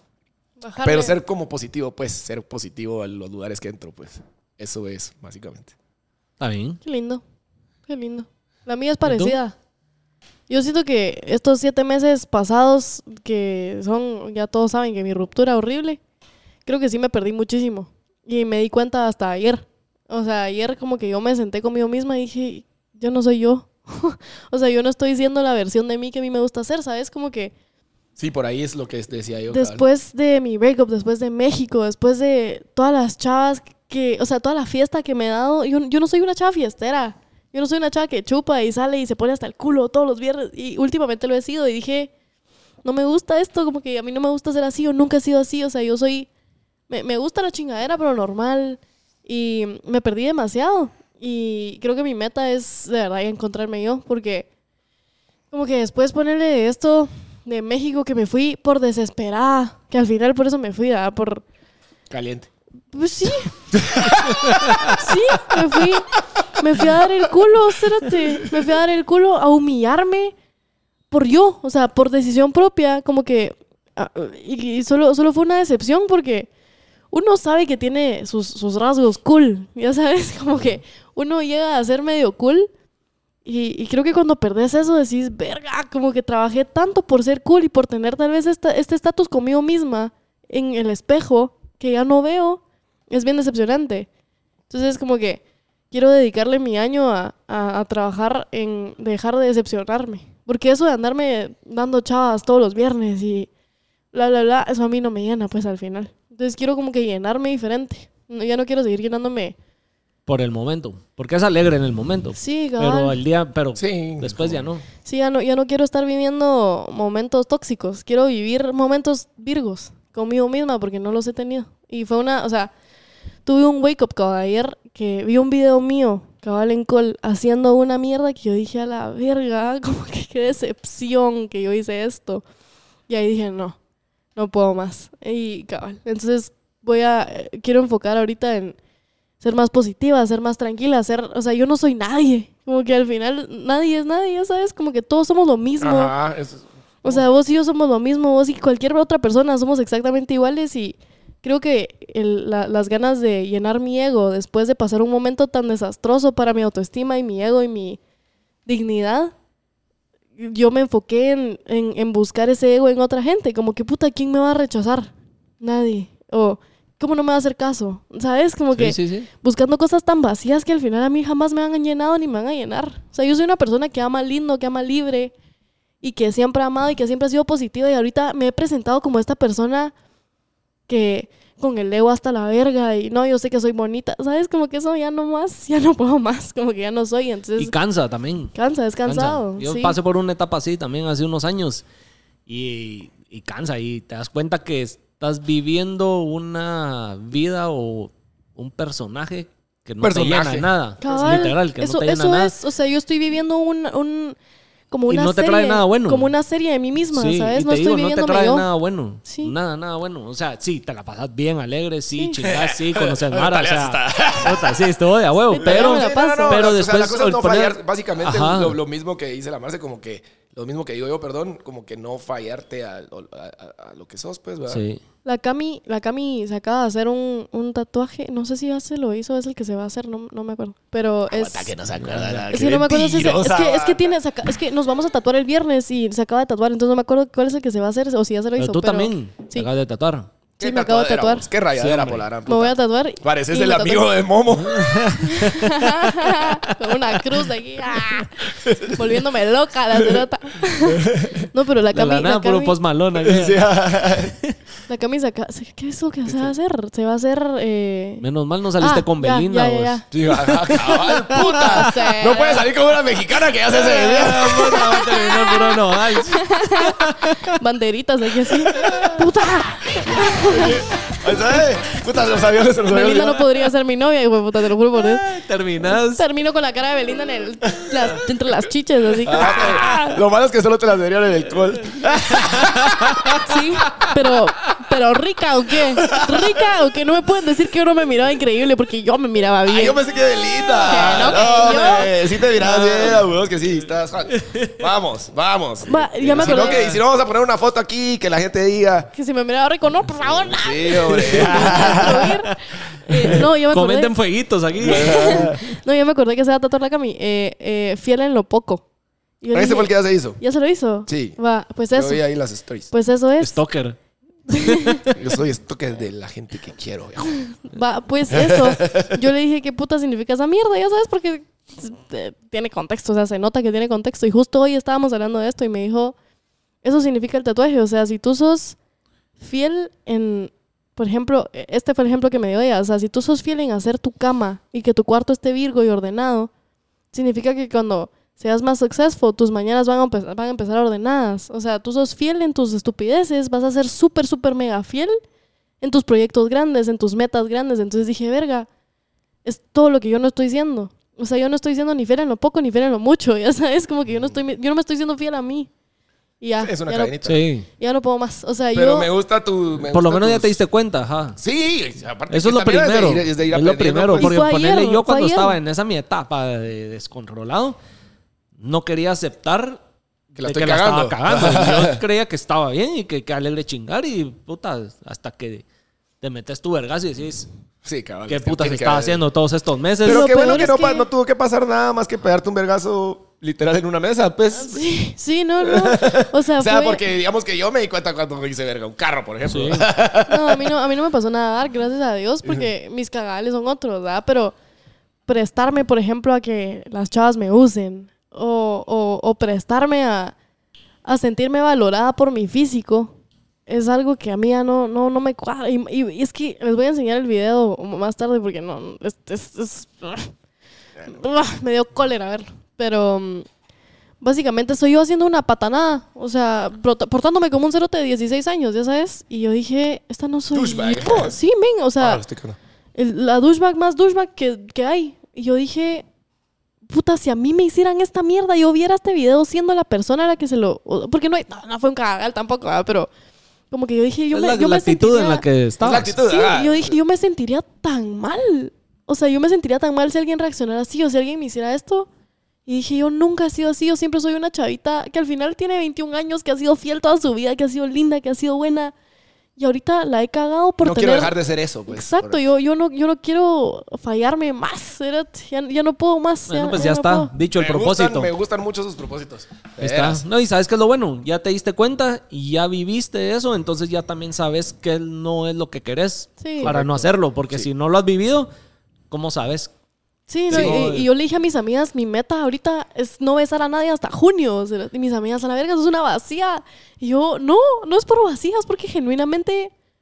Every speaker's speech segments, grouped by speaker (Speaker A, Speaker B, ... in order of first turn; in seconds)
Speaker A: 0.6-1.1, 6.8-7.2, 7.9-9.6, 10.5-16.0, 16.6-27.5, 29.5-42.1, 42.8-46.3, 46.9-54.5, 55.5-61.4, 62.9-63.6, 64.8-70.3, 71.1-76.5, 77.1-82.7, 83.4-94.1, 94.7-103.5, 104.1-109.5, 112.3-113.2, 115.0-122.7, 123.5-132.4, 133.1-133.8, 134.3-138.8, 139.4-146.1, 147.0-158.0, 158.7-159.3, 160.4-175.3, 176.0-179.9, 180.9-187.7, 188.5-190.0, 201.0-204.4, 204.9-208.7, 209.3-209.5, 212.1-212.4, 215.5-216.6, 225.2-231.7, 232.5-239.7, 240.6-241.5, 242.5-244.1, 245.3-252.8, 254.9-258.2, 258.8-262.7, 263.8-270.8, 272.9-275.2, 276.0-280.0, 283.4-290.0, 290.6-292.3, 295.9-296.8, 299.1-304.1, 304.9-308.8, 309.4-312.2, 312.9-313.6, 314.5-315.1, 317.5-326.1, 326.8-328.8, 329.4-336.5, 337.1-345.2, 345.8-348.7, 349.4-355.7, 356.4-357.3, 357.8-359.1, 364.2-365.6, 380.0-381.1, 384.5-387.0, 390.3-394.5, 395.3-400.3, 401.0-403.1, 403.7-410.3, 411.0-413.4, 414.2-422.2, 422.9-426.1, 426.9-433.1, 433.7-435.4, 436.2-442.1, 442.6-448.9, 449.6-451.3, 451.9-457.3, 466.4-466.7, 470.3-479.7
Speaker B: 0.8-5.7, 28.1-29.8, 62.1-62.5, 63.7-66.0, 66.7-67.0, 113.8-114.7, 145.8-147.2, 200.0-201.5, 212.4-214.8, 215.6-224.8, 231.3-234.2, 240.6-245.4, 248.5-249.1, 250.1-251.5, 253.1-254.3, 256.3-256.5, 260.1-264.9, 268.7-269.2, 269.9-273.4, 277.7-278.0, 279.2-283.4, 285.9-286.6, 289.6-299.1, 300.4-302.4, 304.8-305.6, 309.5-310.4, 311.1-311.4, 311.9-312.9, 315.1-317.4, 318.3-319.2, 356.6-357.4, 358.7-360.6, 361.4-364.4, 370.3-372.0, 377.8-379.2, 380.0-384.8, 385.6-390.7, 392.4-392.7, 420.5-421.4, 422.0-422.6, 435.8-437.0, 450.8-452.4, 457.6-460.2, 466.6-467.7, 470.5-470.9
Speaker C: 6.4-6.8, 9.0-9.3, 64.4-64.9, 110.2-114.8, 168.7-169.3, 187.6-188.5, 189.1-191.8, 192.5-202.5, 205.1-206.3, 207.1-218.8, 224.7-225.0, 232.0-232.5, 238.6-240.3, 241.8-242.2, 244.6-245.9, 251.9-253.6, 254.2-254.5, 258.2-262.1, 263.7-267.5, 268.8-269.1, 274.9-276.2, 279.4-280.1, 282.1-284.0, 292.6-293.2, 294.3-294.8, 296.4-297.0, 301.2-302.6, 303.1-305.6, 313.4-314.0, 314.6-315.0, 357.2-357.7, 359.8-361.4, 362.3-367.8, 368.6-369.8, 370.4-375.6, 376.2-377.5, 378.3-380.3, 389.5-389.9, 434.3-436.1, 456.5-458.3, 459.8-468.5, 469.1-469.7, 470.5-471.1